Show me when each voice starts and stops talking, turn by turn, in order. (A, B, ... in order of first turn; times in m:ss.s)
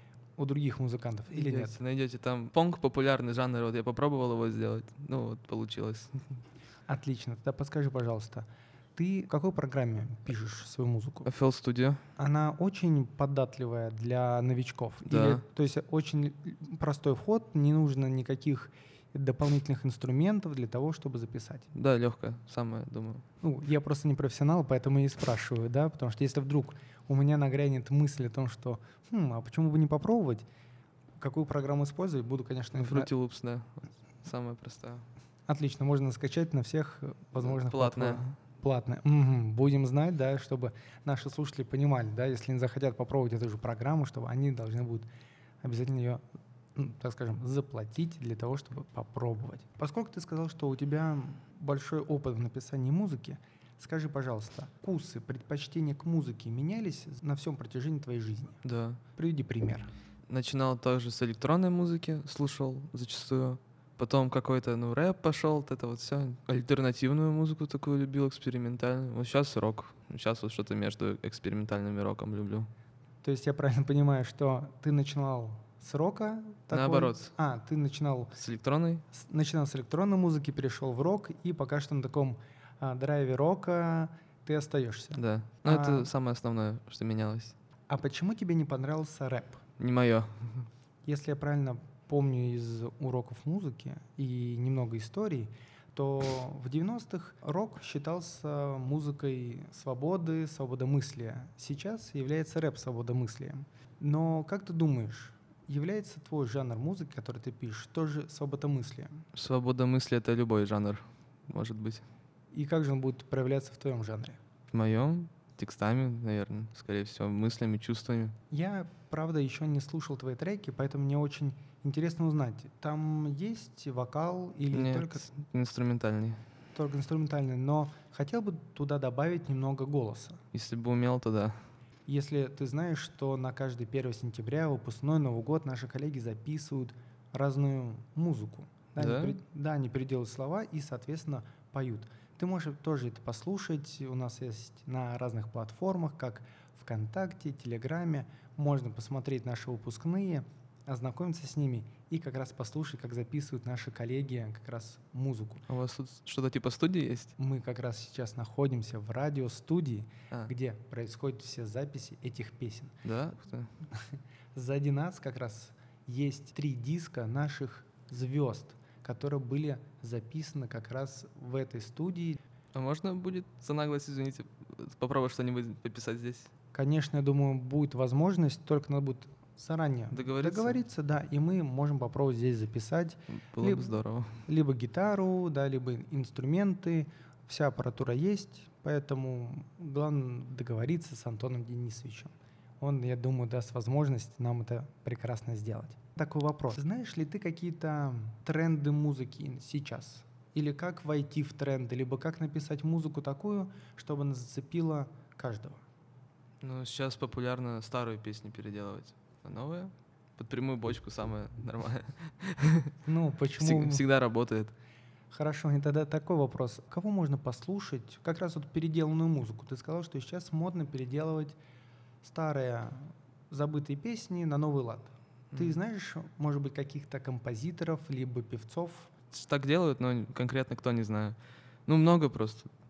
0:00.4-0:01.8 A
0:01.3-0:06.4 B
0:06.9-0:11.3 A
0:11.3-0:12.0 B
0:12.2-0:21.7 A
0:15.1-0:15.4 B
0:21.7-0:23.2 B
0:23.4-0:30.4 A
0:31.2-0:33.1 A
0:32.8-0:35.1 B
0:35.5-0:45.1 A
0:37.4-0:38.4 B
0:45.6-0:46.2 A
0:46.8-0:58.6 A
0:58.6-0:59.0 B
0:59.2-0:59.9 A
1:00.3-1:12.7 B
1:13.2-1:18.3 A
1:16.7-1:17.3 B
1:18.4-1:19.0 B
1:19.1-1:26.1 A
1:25.2-1:27.6 B
1:27.9-1:29.6 A
1:29.8-1:30.7 B
1:31.0-1:49.3 A
1:49.3-1:52.0 B
1:52.5-1:54.4 A
1:54.7-1:58.4 B
1:58.5-2:05.3 A
2:04.7-2:06.4 B
2:06.7-2:10.4 A
2:10.5-2:11.6 B
2:12.1-2:35.6 A
2:19.0-2:19.4 B
2:35.7-2:37.3 B
2:37.4-2:43.0 A
2:43.0-2:43.7 B
2:43.9-2:52.4 A
2:52.7-2:56.5 B
2:56.7-3:25.8 A
3:00.1-3:00.8 B
3:03.4-3:04.3 B
3:26.6-3:32.9 B
3:33.0-3:34.0 A
3:33.6-3:34.7 B
3:35.3-3:41.6 A
3:42.2-3:49.1 A
3:45.5-3:45.8 B
3:49.3-3:52.7 B